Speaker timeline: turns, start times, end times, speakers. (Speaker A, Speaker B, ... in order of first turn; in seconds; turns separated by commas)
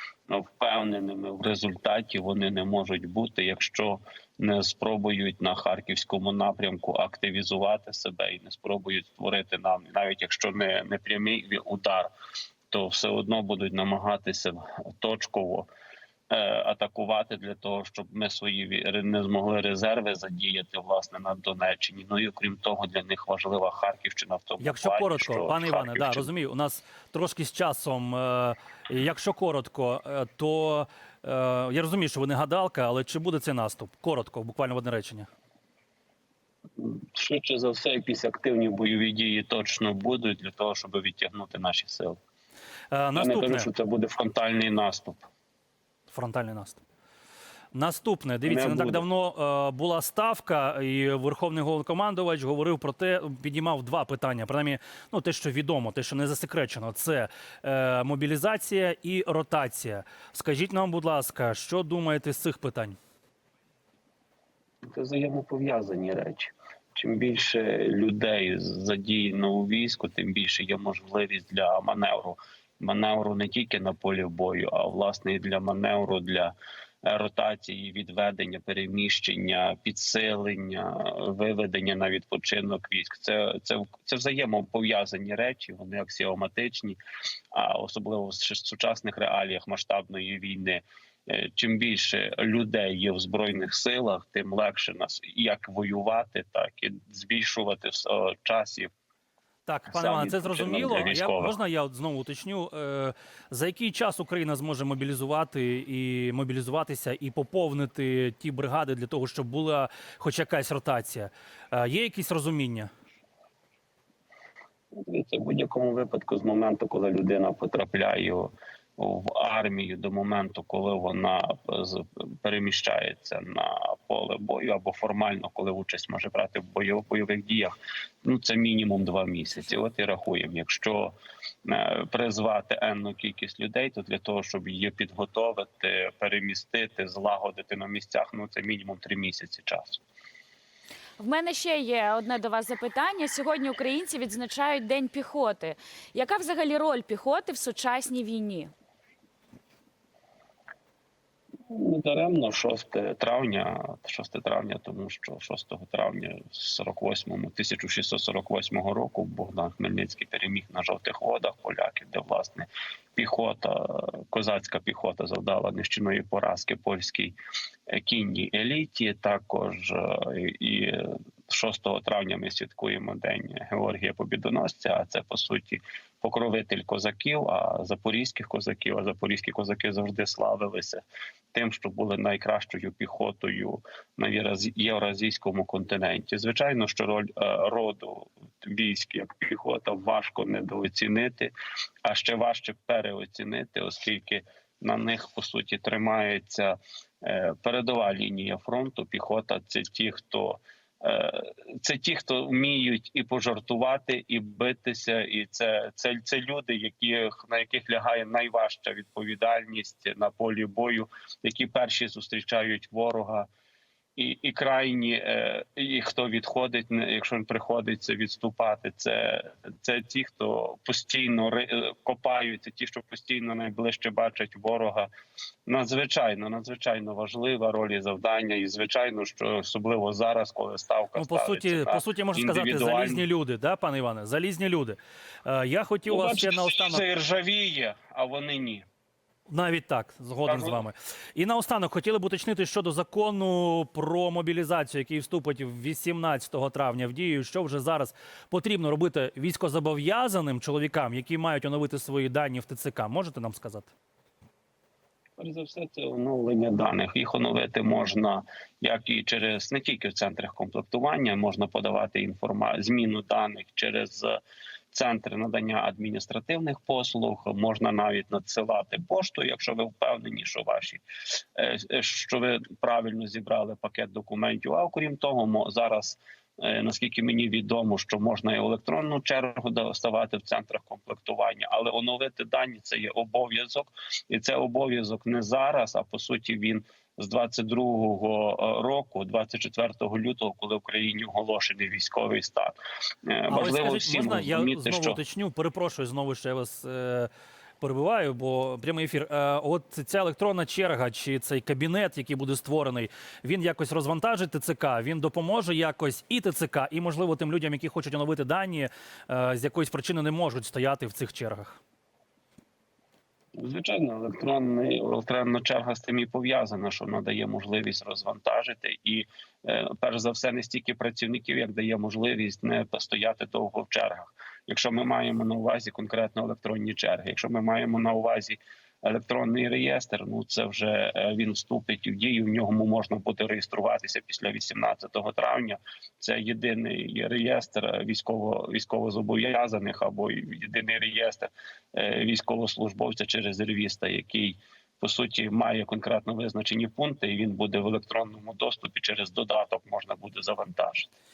Speaker A: 0.3-12.1, Speaker A: 12.7-15.7, Speaker A: 16.3-26.3, Speaker B: 24.6-35.3, Speaker A: 36.8-42.2, Speaker B: 42.9-43.7, Speaker A: 43.2-45.3, Speaker B: 46.1-46.8, Speaker B: 47.7-63.0, Speaker A: 48.5-49.1, Speaker A: 64.9-87.0, Speaker A: 87.5-98.9, Speaker B: 99.7-112.9, Speaker A: 99.9-101.6, Speaker A: 114.9-127.7, Speaker A: 128.2-131.1, Speaker A: 131.7-140.0, Speaker C: 141.2-148.7, Speaker A: 151.7-167.4, Speaker A: 167.9-181.0, Speaker A: 181.5-191.5, Speaker A: 192.0-213.5, Speaker A: 214.2-225.1, Speaker A: 225.7-233.3, Speaker B: 231.2-237.0, Speaker A: 236.1-238.8, Speaker B: 239.5-253.9, Speaker A: 240.4-240.8, Speaker A: 255.4-264.4, Speaker A: 264.9-292.8, Speaker A: 293.3-295.2, Speaker B: 293.5-297.3, Speaker B: 297.8-311.8, Speaker A: 313.6-351.1